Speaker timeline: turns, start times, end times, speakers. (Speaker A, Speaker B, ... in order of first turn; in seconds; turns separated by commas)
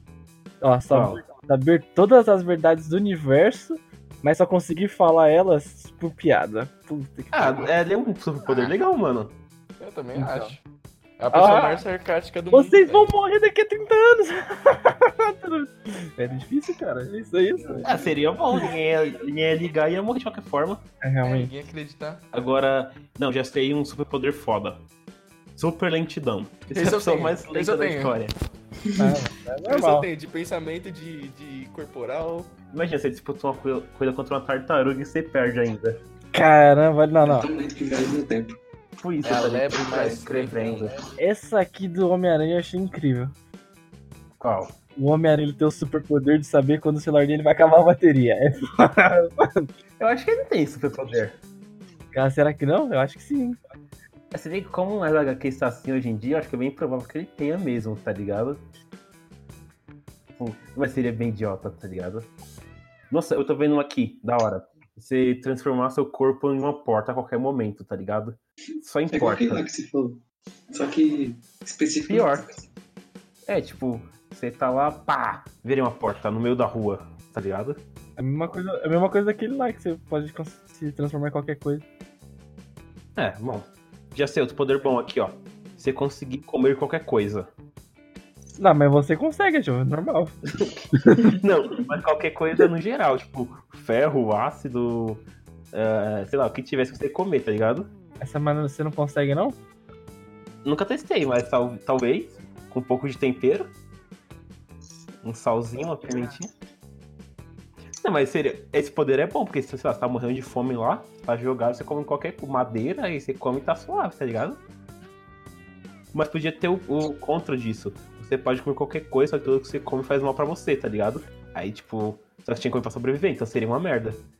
Speaker A: 0.6-7.7, Speaker B: 0.9-1.2, Speaker B: 7.3-9.3, Speaker C: 9.8-10.6, Speaker A: 10.2-10.5, Speaker C: 11.2-13.1, Speaker A: 11.3-11.8, Speaker A: 12.5-17.9, Speaker D: 17.6-18.2, Speaker B: 17.9-20.8, Speaker A: 21.0-21.5, Speaker C: 21.2-22.2, Speaker B: 22.3-24.8, Speaker B: 25.6-28.3, Speaker C: 26.7-28.2, Speaker A: 29.0-30.1, Speaker C: 29.7-32.5, Speaker B: 32.7-36.0, Speaker A: 36.3-37.5, Speaker D: 37.2-38.6, Speaker B: 39.0-41.0, Speaker C: 39.2-41.0, Speaker A: 41.2-43.3, Speaker B: 44.4-44.7, Speaker A: 45.0-49.7, Speaker B: 50.0-51.4, Speaker A: 52.1-53.6, Speaker B: 54.3-58.6, Speaker B: 60.4-62.3, Speaker B: 63.1-69.7, Speaker D: 69.1-70.2, Speaker D: 70.7-72.7, Speaker B: 72.1-72.5, Speaker B: 73.5-77.8, Speaker A: 78.2-81.8, Speaker B: 83.2-87.5, Speaker A: 88.6-90.4, Speaker B: 90.6-97.9, Speaker A: 91.0-91.3, Speaker A: 98.2-99.6, Speaker B: 100.7-103.7, Speaker B: 105.2-106.5, Speaker B: 108.0-114.6, Speaker B: 116.1-124.2